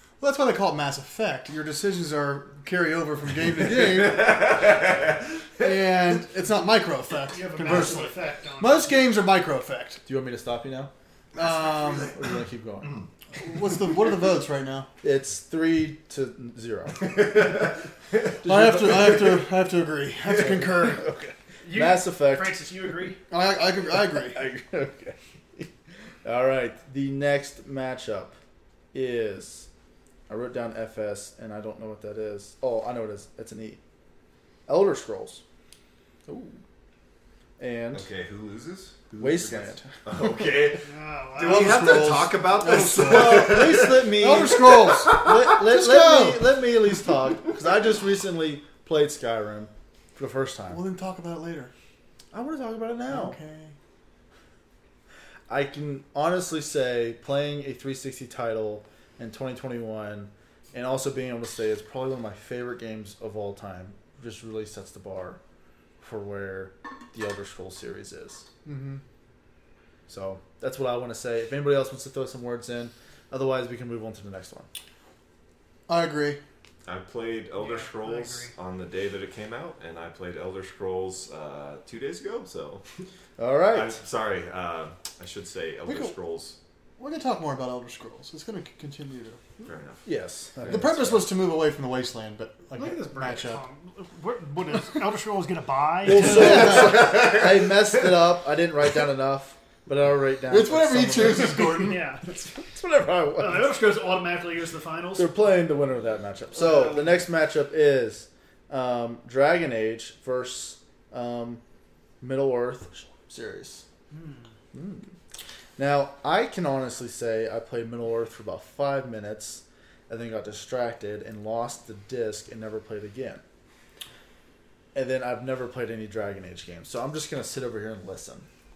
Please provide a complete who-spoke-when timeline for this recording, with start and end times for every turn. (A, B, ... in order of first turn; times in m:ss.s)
0:00.2-0:04.8 A
0:03.8-0:05.1 B
0:05.6-0:10.0 A
0:07.3-0:09.0 C
0:10.1-0:10.9 D
0:11.4-0:12.1 A
0:11.4-0:12.2 B
0:12.0-0:13.0 D
0:13.4-0:14.9 A
0:15.0-0:17.6 D
0:18.4-0:19.4 D
0:18.4-0:21.1 A
0:20.4-0:22.6 D
0:21.6-0:23.2 C
0:23.3-0:24.4 A
0:23.9-0:25.7 D
0:26.2-0:28.4 D
0:28.9-0:29.7 D
0:30.3-0:33.8 D
0:34.7-0:35.4 D
0:36.3-0:36.6 D
0:37.6-0:38.1 D
0:37.9-0:44.2 B
0:39.2-0:39.9 D
0:40.8-0:42.1 C
0:41.4-0:46.5 A
0:43.0-0:50.8 D
0:50.7-0:51.7 A
0:52.3-0:53.4 D
0:53.1-0:53.8 A
0:55.5-1:05.4 D
1:06.0-1:08.5 D
1:08.6-1:09.0 A
1:10.1-1:14.7 D
1:15.9-1:16.4 A
1:16.8-1:22.8 B
1:17.6-1:18.5 C
1:23.4-1:24.0 D
1:23.7-1:26.6 B
1:25.9-1:26.1 A
1:27.0-1:29.6 A
1:29.6-1:30.0 B
1:30.0-1:31.3 D
1:30.7-1:33.6 A
1:32.7-1:37.0 C
1:36.0-1:43.8 D
1:36.1-1:36.9 A
1:40.5-1:42.0 A
1:41.8-1:42.3 C
1:43.4-1:45.3 C
1:45.2-1:51.6 D
1:46.6-1:46.9 C
1:52.2-1:53.8 D
1:54.1-1:54.5 C
1:54.7-1:55.1 D
1:55.8-2:03.4 D
2:04.9-2:08.5 D